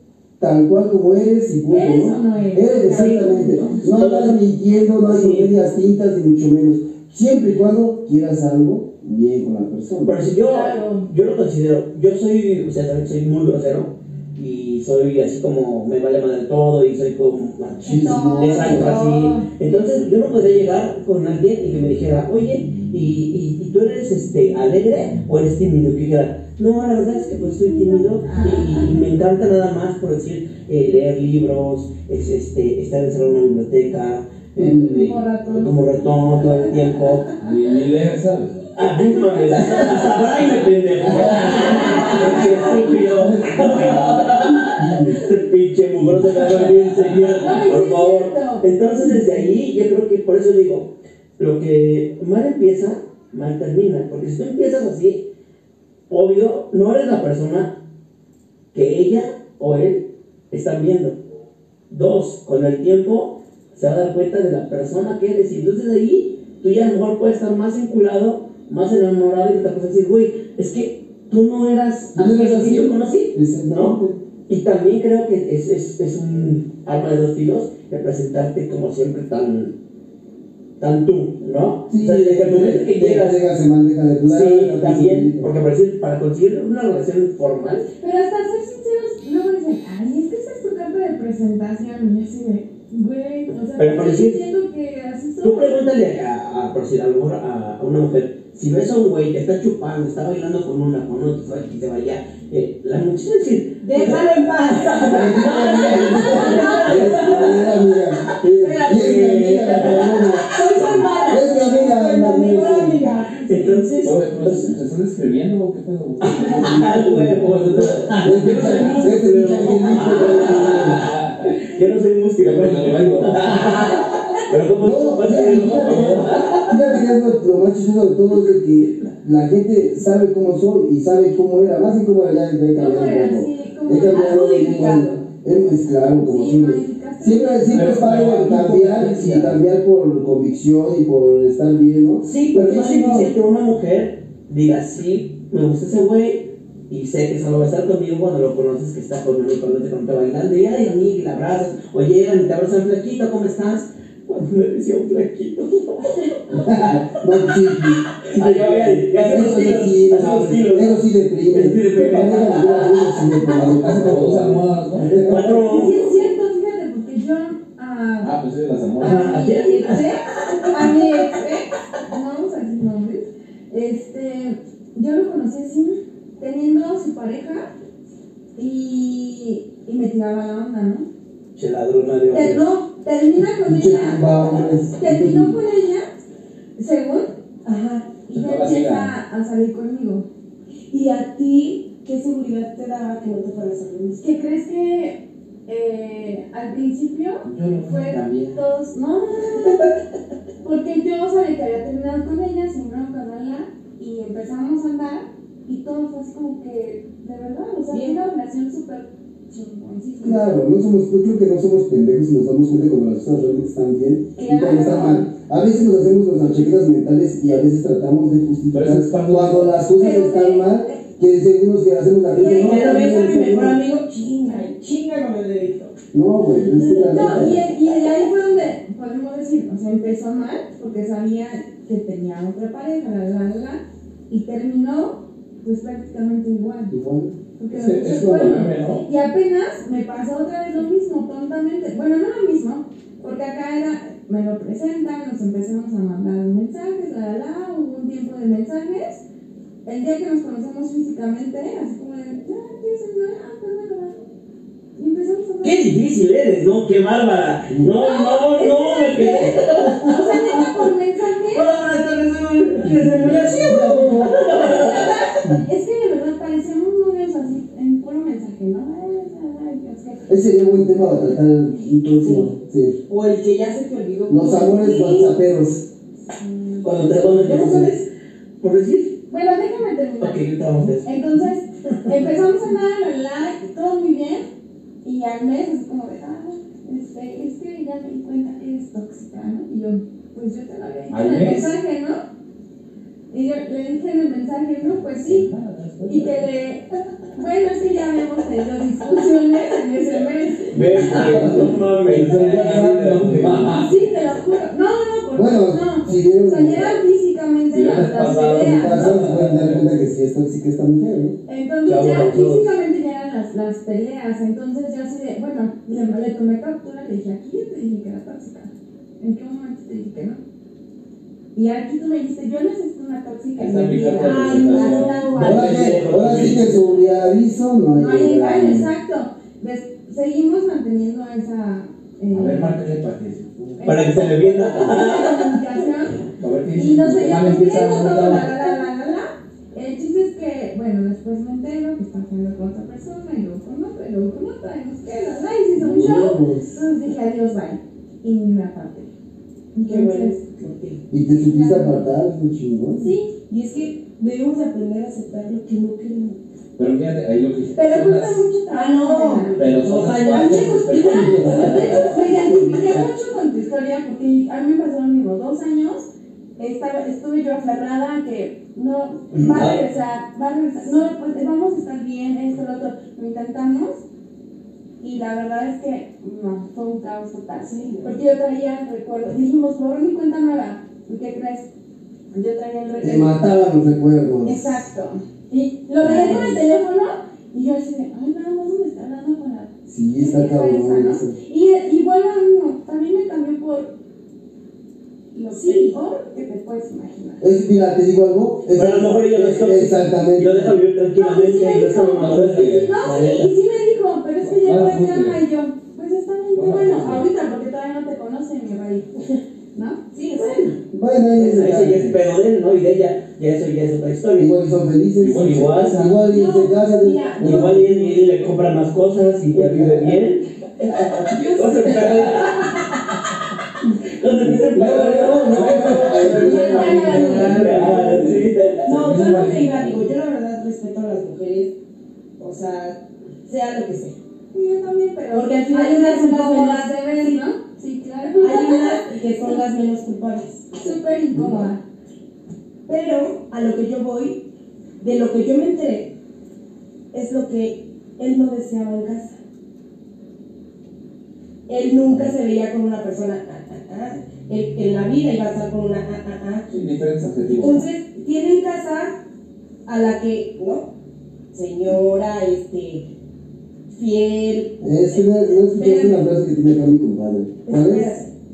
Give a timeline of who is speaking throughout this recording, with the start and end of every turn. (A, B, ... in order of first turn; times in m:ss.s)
0:00.4-0:10.3 A
0:01.7-0:03.8 B
0:02.8-0:05.5 C
0:10.0-0:37.3 C
0:10.4-0:11.1 B
0:17.8-0:19.1 A
0:17.8-0:20.0 B
0:27.7-0:28.9 B
0:34.6-0:35.1 A
0:34.6-0:37.4 B
0:37.4-0:38.8 D
0:38.8-0:40.0 B
0:38.8-0:55.2 C
0:41.0-0:41.6 A
0:41.1-0:42.2 D
0:41.1-0:43.1 B
0:43.1-0:45.2 A
0:46.2-0:47.7 D
0:47.4-0:48.6 B
0:56.1-0:57.8 C
0:58.7-1:01.2 C
1:01.9-1:19.8 C
1:12.1-1:14.2 A
1:20.8-1:23.4 C
1:21.9-1:25.5 A
1:24.2-1:27.9 C
1:28.0-1:35.8 B
1:33.5-1:34.4 C
1:35.4-1:51.2 C
1:43.8-1:47.7 E
1:45.0-1:53.1 A
1:48.6-1:54.1 E
1:53.3-1:53.8 B
1:53.4-1:54.7 C
1:54.0-1:59.1 D
1:56.2-2:06.8 C
1:58.2-2:01.0 A
2:00.8-2:01.5 D
2:02.4-2:03.9 D
2:04.8-2:23.3 A
2:05.6-2:06.4 D
2:12.7-2:15.2 B
2:16.2-2:18.0 B
2:17.6-2:19.6 D
2:22.2-2:37.4 C
2:36.5-2:38.1 A
2:38.2-2:43.3 C
2:38.3-2:39.0 D
2:39.1-2:45.6 A
2:43.5-2:45.5 D
2:45.2-2:46.3 C
2:45.6-2:48.4 B
2:48.2-2:49.2 D
2:49.0-2:50.9 C
2:49.0-2:57.7 B
2:58.6-3:01.0 B
3:01.6-3:02.7 C
3:02.3-3:06.1 B
3:03.6-3:05.6 A
3:06.8-3:07.3 B
3:07.6-3:08.1 E
3:08.3-3:10.2 B
3:08.3-3:09.1 D
3:10.9-3:14.3 E
3:14.2-3:19.9 B
3:17.4-3:18.6 D
3:20.6-3:30.4 B
3:27.9-3:28.2 E
3:30.2-3:43.8 A
3:34.4-3:35.3 B
3:38.7-3:39.9 D
3:40.0-3:41.0 B
3:42.3-3:45.9 E
3:46.1-3:47.7 A
3:46.5-3:56.9 B
3:46.7-3:47.4 E
3:56.9-3:57.4 A
3:57.6-4:09.2 B
3:57.7-3:59.0 D
4:09.8-4:14.1 B
4:15.0-4:15.8 B
4:15.6-4:20.6 C
4:17.7-4:17.9 A
4:17.9-4:21.7 B
4:21.5-4:25.3 C
4:22.8-4:24.4 A
4:23.3-4:30.3 B
4:30.3-4:33.0 A
4:32.2-4:32.5 E
4:33.1-4:35.4 E
4:34.3-4:35.9 A
4:36.4-4:37.8 B
4:36.8-4:38.1 C
4:37.5-4:37.9 A
4:38.6-4:39.2 C
4:39.3-4:40.4 B
4:40.2-4:41.1 C
4:41.0-4:44.4 B
4:45.0-4:52.2 B
4:51.1-4:51.8 D
4:53.3-4:55.5 B
4:54.8-4:56.5 D
4:56.1-5:01.4 B
5:00.7-5:03.9 D
5:00.7-5:03.9 C
5:01.0-5:03.7 A
5:03.8-5:09.1 B
5:05.3-5:07.0 A
5:07.7-5:09.9 D
5:08.5-5:11.4 A
5:11.5-5:20.4 B
5:11.8-5:12.8 C
5:21.5-5:26.0 B
5:23.6-5:26.6 D
5:24.2-5:25.6 E
5:25.4-5:26.8 C
5:25.4-5:28.9 A
5:28.0-5:32.8 B
5:32.3-5:33.8 D
5:33.8-5:49.1 B
5:33.8-5:35.7 C
5:36.3-5:38.6 D
5:45.8-5:46.8 A
5:49.7-5:50.4 B
5:49.8-5:51.0 E
5:51.1-5:53.1 A
5:51.3-5:52.0 B
5:53.0-5:53.3 B
5:53.5-5:56.4 E
5:56.8-5:58.5 D
5:57.7-6:06.0 B
5:58.7-6:02.0 E
5:59.6-6:02.2 D
5:59.8-6:02.1 C
6:01.2-6:03.1 A
6:06.6-6:14.0 B
6:09.3-6:09.8 C
6:15.0-6:21.7 B
6:17.6-6:18.2 E
6:22.3-6:23.3 B
6:23.0-6:24.7 A
6:24.4-6:33.9 B
6:26.0-6:26.7 A
6:29.9-6:31.4 A
6:35.3-6:36.0 E
6:35.4-6:37.5 B
6:37.4-6:40.8 A
6:38.7-6:43.5 C
6:41.1-6:50.6 B
6:42.2-6:43.0 D
6:44.4-6:45.4 D
6:46.5-6:47.3 D
6:50.1-6:50.8 E
6:50.9-6:52.2 A
6:51.3-6:54.6 C
6:54.4-6:57.9 A
6:55.2-6:56.0 C
6:55.2-6:56.2 D
6:56.2-6:58.1 B
6:57.4-7:00.5 C
6:59.5-7:00.2 A
7:00.8-7:01.2 A
7:01.3-7:02.8 B
7:01.5-7:02.7 C
7:01.9-7:02.2 E
7:04.0-7:08.8 C
7:04.4-7:08.2 A
7:05.4-7:10.1 D
7:06.3-7:07.9 B
7:08.8-7:11.7 E
7:12.4-7:14.2 E
7:14.5-7:19.1 B
7:15.3-7:17.5 E
7:18.4-7:21.0 E
7:20.8-7:21.8 B
7:21.3-7:21.6 A
7:22.9-7:24.4 E
7:25.0-7:26.1 E
7:27.1-7:29.4 E
7:31.7-7:36.7 E
7:36.7-7:37.8 D
7:37.4-7:39.2 E
7:39.9-7:40.9 E
7:41.5-7:43.1 E
7:43.9-7:46.2 E
7:44.8-7:48.1 A
7:47.6-7:48.3 E